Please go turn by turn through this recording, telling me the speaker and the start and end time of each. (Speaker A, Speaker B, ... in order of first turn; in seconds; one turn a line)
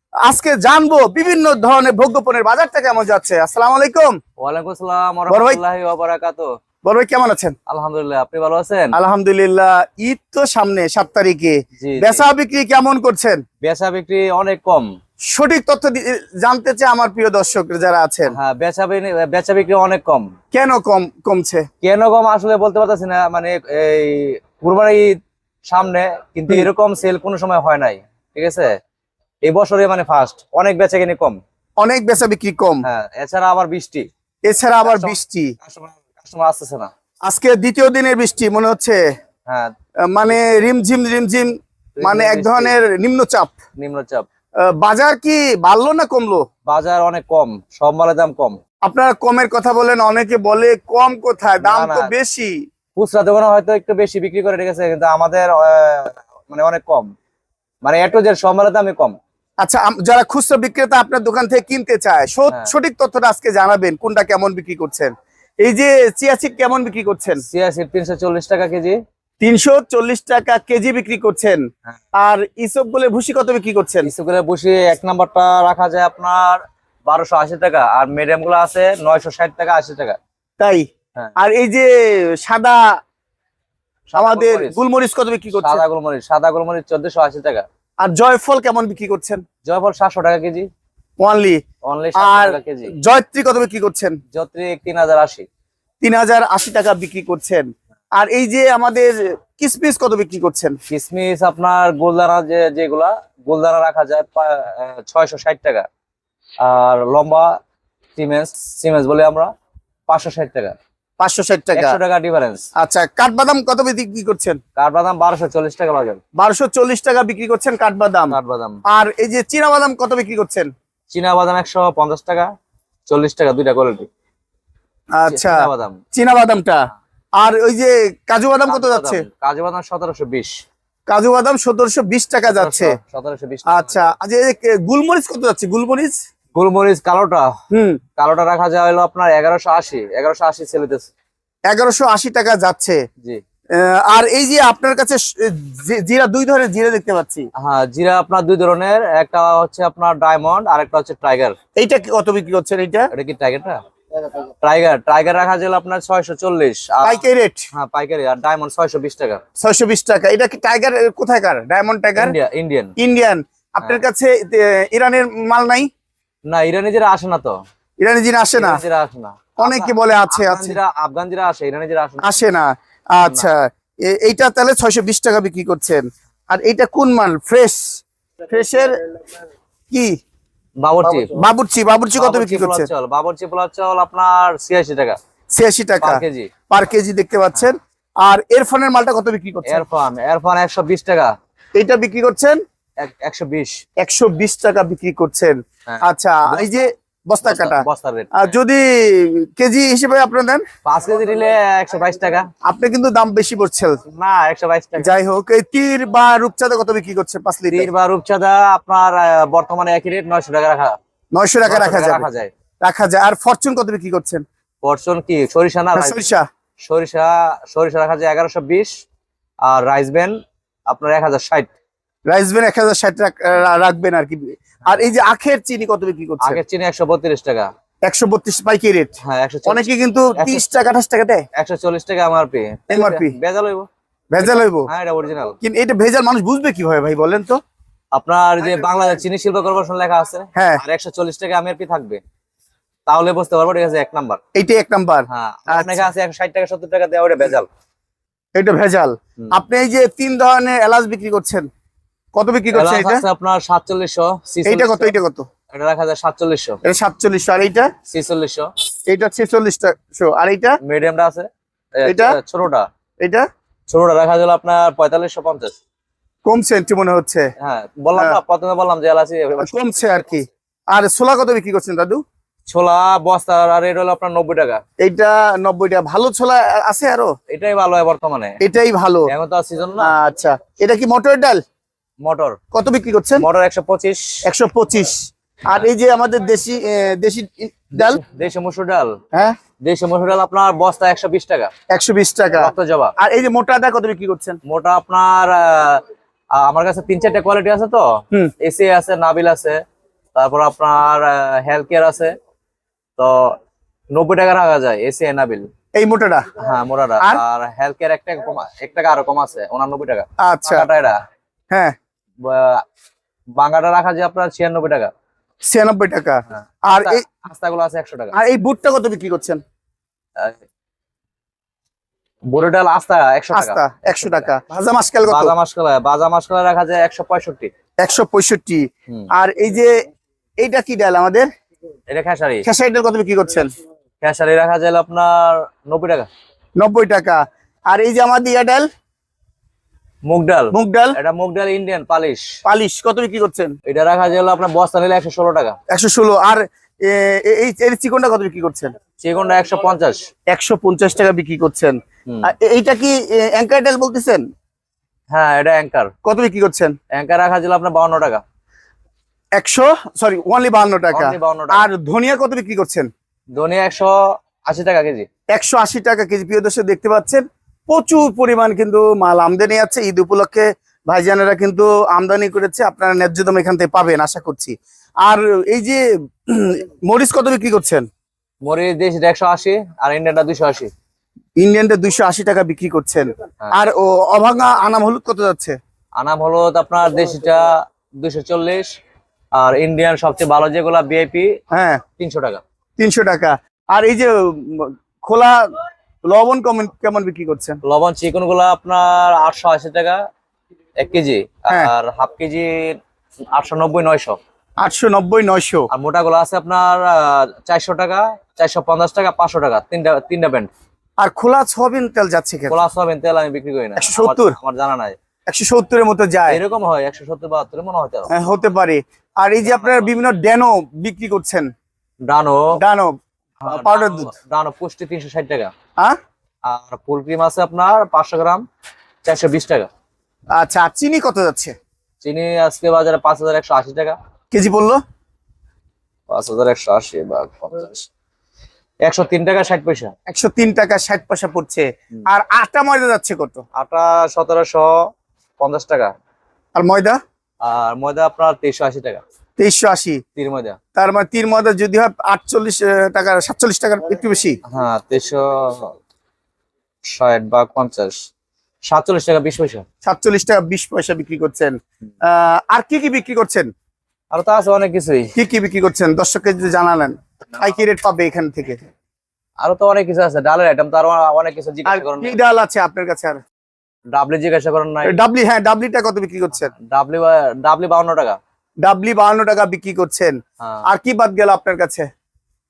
Speaker A: 0.2-4.2
Speaker B: 4.4-6.5
Speaker A: 5.3-5.6
Speaker A: 6.8-7.5
Speaker B: 7.7-8.9
Speaker A: 8.9-13.4
Speaker B: 11.8-12.2
Speaker B: 13.6-14.9
Speaker A: 15.3-18.3
Speaker B: 18.3-20.3
Speaker A: 20.5-21.6
Speaker B: 21.8-25.1
Speaker B: 25.7-28.7
Speaker B: 29.4-31.4
Speaker A: 31.8-32.9
Speaker B: 32.8-34.1
Speaker A: 34.4-35.5
Speaker B: 34.8-36.9
Speaker A: 37.2-39.0
Speaker B: 39.5-39.7
Speaker A: 40.1-43.6
Speaker B: 42.0-42.8
Speaker B: 43.8-44.2
Speaker A: 44.6-46.4
Speaker B: 46.7-48.6
Speaker A: 48.8-52.5
Speaker B: 51.6-52.1
Speaker B: 53.0-57.1
Speaker B: 57.8-59.1
Speaker A: 59.6-67.4
Speaker B: 67.5-69.0
Speaker A: 69.4-71.6
Speaker A: 72.2-74.1
Speaker B: 74.0-80.2
Speaker A: 80.6-80.8
Speaker A: 81.4-83.0
Speaker B: 84.1-84.8
Speaker A: 84.1-85.8
Speaker B: 85.6-87.6
Speaker A: 88.0-89.4
Speaker B: 89.6-90.7
Speaker A: 91.2-91.6
Speaker B: 91.8-92.9
Speaker A: 92.2-94.2
Speaker B: 94.3-95.5
Speaker A: 96.0-100.8
Speaker B: 100.9-105.8
Speaker B: 106.6-107.5
Speaker B: 108.2-109.5
Speaker B: 110.1-110.7
Speaker A: 111.2-112.0
Speaker B: 111.7-112.6
Speaker A: 112.8-114.6
Speaker B: 114.8-116.2
Speaker A: 116.3-118.4
Speaker B: 118.3-118.8
Speaker A: 118.9-120.7
Speaker B: 121.1-122.5
Speaker B: 123.1-124.1
Speaker A: 125.1-126.8
Speaker B: 125.3-126.0
Speaker A: 127.4-129.2
Speaker B: 128.7-130.5
Speaker A: 131.1-133.0
Speaker B: 132.5-134.1
Speaker A: 133.7-136.2
Speaker B: 136.5-137.5
Speaker A: 137.7-138.0
Speaker B: 138.2-141.1
Speaker A: 141.7-143.0
Speaker A: 143.7-147.4
Speaker B: 147.6-151.6
Speaker A: 151.8-153.1
Speaker B: 153.1-153.8
Speaker B: 154.6-159.4
Speaker A: 157.0-157.6
Speaker A: 159.6-162.3
Speaker B: 162.2-162.9
Speaker A: 163.0-165.9
Speaker B: 166.5-167.5
Speaker A: 168.0-168.8
Speaker B: 168.6-172.4
Speaker A: 169.6-170.8
Speaker A: 172.2-178.9
Speaker B: 173.2-173.5
Speaker A: 179.9-180.2
Speaker B: 180.8-181.3
Speaker A: 181.0-182.9
Speaker B: 182.1-185.2
Speaker A: 185.5-189.8
Speaker B: 186.0-186.5
Speaker B: 189.7-191.3
Speaker A: 191.8-192.6
Speaker B: 193.0-193.8
Speaker A: 194.0-200.6
Speaker B: 195.9-196.7
Speaker B: 197.4-198.5
Speaker B: 200.8-202.5
Speaker A: 202.6-204.0
Speaker B: 204.1-205.1
Speaker A: 205.0-207.9
Speaker B: 207.7-210.9
Speaker A: 211.3-212.2
Speaker B: 211.7-212.5
Speaker A: 212.8-214.4
Speaker B: 214.8-216.3
Speaker A: 215.9-216.4
Speaker B: 216.8-218.9
Speaker B: 219.7-220.3
Speaker B: 220.9-221.7
Speaker A: 222.3-226.6
Speaker B: 226.4-227.7
Speaker A: 228.0-229.1
Speaker B: 229.2-229.8
Speaker A: 229.7-231.4
Speaker B: 230.4-230.6
Speaker B: 231.6-233.9
Speaker A: 232.9-233.3
Speaker A: 234.3-234.9
Speaker B: 234.4-235.6
Speaker A: 235.6-237.6
Speaker B: 238.1-242.2
Speaker A: 240.6-240.8
Speaker B: 243.1-244.4
Speaker A: 244.5-246.1
Speaker B: 245.3-247.7
Speaker A: 248.5-251.7
Speaker A: 252.3-253.2
Speaker B: 252.7-255.1
Speaker A: 254.6-255.4
Speaker B: 255.7-256.8
Speaker A: 256.8-257.9
Speaker B: 258.1-258.7
Speaker A: 259.1-260.8
Speaker B: 260.8-262.9
Speaker A: 262.0-262.4
Speaker B: 263.9-265.7
Speaker A: 266.4-267.5
Speaker B: 267.6-270.3
Speaker A: 269.6-272.2
Speaker B: 272.7-274.8
Speaker A: 275.0-277.3
Speaker B: 277.5-278.6
Speaker A: 278.6-279.3
Speaker B: 279.3-280.1
Speaker A: 280.0-281.6
Speaker B: 282.2-282.6
Speaker A: 282.7-283.4
Speaker B: 283.4-284.2
Speaker A: 284.4-285.2
Speaker A: 285.7-288.2
Speaker B: 287.9-289.1
Speaker B: 289.8-291.7
Speaker A: 291.9-294.6
Speaker B: 292.6-293.1
Speaker B: 294.6-296.0
Speaker B: 296.6-298.1
Speaker B: 298.6-299.8
Speaker B: 300.3-302.3
Speaker B: 303.2-303.5
Speaker B: 304.1-305.7
Speaker A: 305.9-306.4
Speaker B: 306.6-311.2
Speaker A: 310.4-310.9
Speaker B: 312.4-312.8
Speaker B: 313.6-315.1
Speaker A: 315.7-317.2
Speaker B: 316.5-318.3
Speaker A: 318.3-319.6
Speaker B: 322.5-324.5
Speaker A: 323.5-325.5
Speaker B: 325.3-327.7
Speaker A: 328.0-328.8
Speaker A: 329.4-329.9
Speaker A: 330.6-331.5
Speaker B: 332.1-332.6
Speaker A: 332.6-333.7
Speaker B: 334.2-336.3
Speaker A: 336.8-338.9
Speaker B: 340.2-342.4
Speaker A: 340.7-341.1
Speaker A: 342.6-343.7
Speaker B: 343.9-345.8
Speaker A: 345.9-348.9
Speaker B: 349.2-350.3
Speaker A: 350.5-354.4
Speaker B: 355.3-356.1
Speaker A: 356.2-356.9
Speaker B: 357.1-358.4
Speaker A: 359.6-363.1
Speaker B: 361.1-361.9
Speaker B: 363.5-365.3
Speaker A: 365.5-378.1
Speaker B: 378.6-380.9
Speaker A: 381.6-385.8
Speaker B: 386.2-388.9
Speaker B: 389.6-391.5
Speaker A: 391.7-392.0
Speaker B: 392.2-392.6
Speaker A: 393.0-395.7
Speaker A: 396.2-397.8
Speaker B: 397.8-400.2
Speaker B: 401.0-402.9
Speaker B: 403.5-404.4
Speaker A: 404.8-405.9
Speaker B: 405.9-410.7
Speaker A: 411.2-412.8
Speaker B: 412.7-415.1
Speaker A: 414.0-414.6
Speaker A: 415.5-416.6
Speaker B: 416.5-418.3
Speaker A: 418.3-421.7
Speaker B: 419.6-420.1
Speaker B: 422.3-422.7
Speaker A: 422.8-424.3
Speaker B: 423.6-425.7
Speaker B: 426.7-428.6
Speaker B: 429.2-429.9
Speaker A: 430.5-431.7
Speaker B: 432.2-434.2
Speaker A: 434.5-435.0
Speaker B: 436.3-438.1
Speaker B: 439.1-440.1
Speaker A: 440.3-443.6
Speaker B: 443.7-444.9
Speaker B: 445.6-446.1
Speaker A: 446.7-447.2
Speaker B: 447.6-449.2
Speaker A: 449.6-450.2
Speaker B: 450.4-450.8
Speaker A: 450.9-454.6
Speaker B: 454.7-455.9
Speaker B: 457.1-458.1
Speaker B: 458.9-459.8
Speaker A: 460.0-463.7
Speaker B: 464.3-465.3
Speaker A: 465.4-468.8
Speaker B: 469.6-472.4
Speaker A: 471.8-473.4
Speaker B: 474.1-475.1
Speaker A: 475.0-476.7
Speaker B: 476.7-478.4
Speaker A: 478.8-482.1
Speaker B: 480.6-480.8